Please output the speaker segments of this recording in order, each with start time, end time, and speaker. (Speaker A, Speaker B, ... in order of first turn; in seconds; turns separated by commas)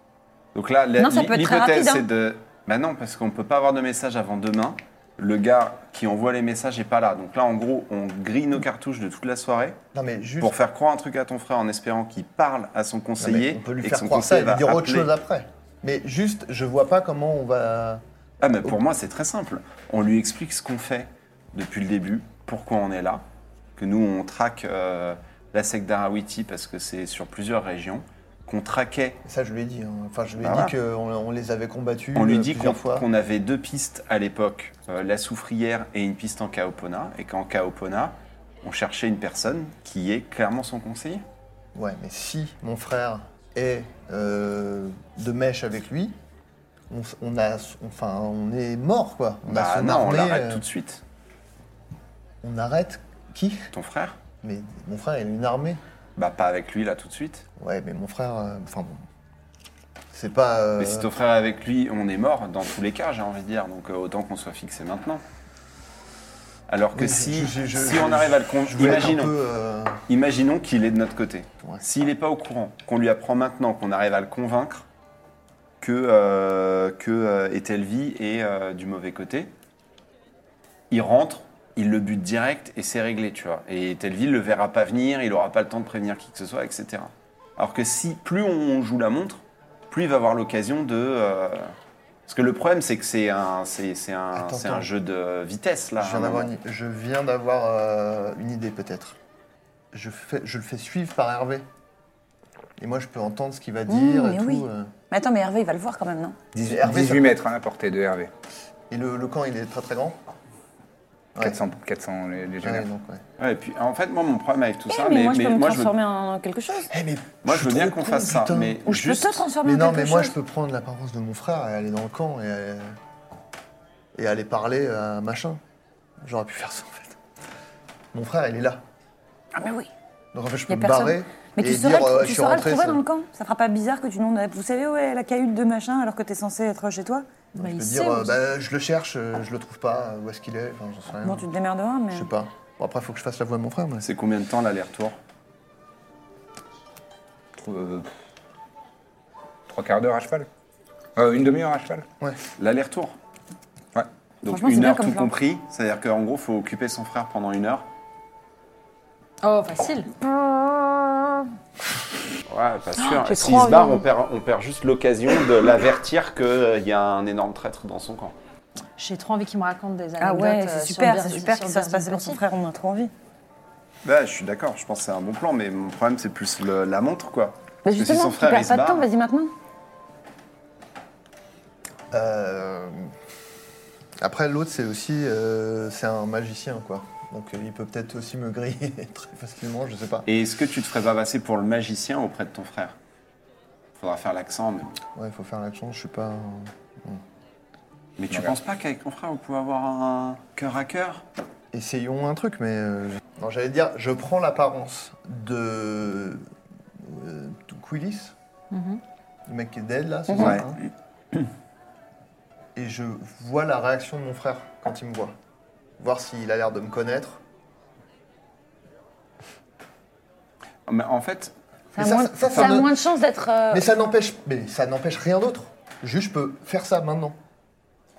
Speaker A: 0.6-9.8, Speaker B: 1.0-2.0, Speaker C: 9.9-10.5, Speaker A: 10.4-15.1, Speaker C: 13.2-18.0, Speaker A: 18.4-23.2, Speaker A: 23.8-29.2, Speaker C: 29.2-33.1, Speaker A: 30.4-30.8, Speaker A: 32.1-41.2, Speaker C: 41.8-46.2, Speaker C: 46.9-50.6, Speaker A: 49.5-51.0, Speaker C: 52.4-53.7, Speaker A: 53.7-54.2, Speaker C: 54.4-55.8, Speaker A: 56.2-57.5, Speaker C: 57.6-59.0, Speaker C: 60.1-61.1, Speaker A: 60.8-65.2, Speaker A: 66.7-69.4, Speaker C: 67.0-70.0, Speaker A: 70.1-74.8, Speaker A: 75.8-79.5, Speaker A: 80.9-91.8, Speaker A: 92.3-96.5, Speaker C: 94.3-94.9, Speaker C: 96.0-99.2, Speaker C: 99.9-101.7, Speaker C: 102.8-104.9, Speaker B: 103.9-106.4, Speaker D: 106.5-108.3, Speaker C: 106.6-107.4, Speaker C: 108.9-110.2, Speaker C: 111.3-111.6, Speaker D: 111.4-112.9, Speaker C: 112.6-113.2, Speaker A: 113.4-115.9, Speaker B: 114.9-116.9, Speaker C: 116.9-118.8, Speaker A: 117.4-119.5, Speaker B: 118.8-120.3, Speaker C: 119.6-123.0, Speaker C: 124.2-125.6, Speaker C: 126.2-127.2, Speaker C: 128.1-128.8, Speaker B: 129.6-129.9, Speaker C: 130.3-133.0, Speaker B: 130.7-137.2, Speaker C: 137.6-141.5, Speaker E: 137.6-138.4, Speaker B: 141.2-142.3, Speaker C: 142.1-144.1, Speaker A: 144.0-145.2, Speaker D: 147.6-148.1, Speaker D: 149.7-150.5, Speaker D: 151.2-152.1, Speaker A: 152.6-153.2, Speaker A: 154.4-157.9, Speaker B: 154.4-155.3, Speaker E: 159.4-160.2, Speaker B: 160.4-160.9, Speaker A: 162.5-168.3, Speaker B: 163.2-164.0, Speaker E: 169.0-172.4, Speaker B: 170.2-173.1, Speaker A: 174.0-179.1, Speaker B: 177.8-179.5, Speaker C: 182.1-183.1, Speaker C: 184.2-190.3, Speaker A: 190.3-193.0, Speaker A: 194.0-195.0, Speaker C: 195.2-197.2, Speaker A: 198.2-201.2, Speaker C: 201.7-206.4, Speaker C: 207.0-208.3, Speaker C: 209.5-210.8, Speaker A: 210.3-210.7, Speaker C: 212.8-215.3, Speaker C: 216.0-217.4, Speaker A: 220.9-221.5, Speaker B: 221.9-223.8, Speaker C: 222.0-222.9, Speaker C: 223.7-227.4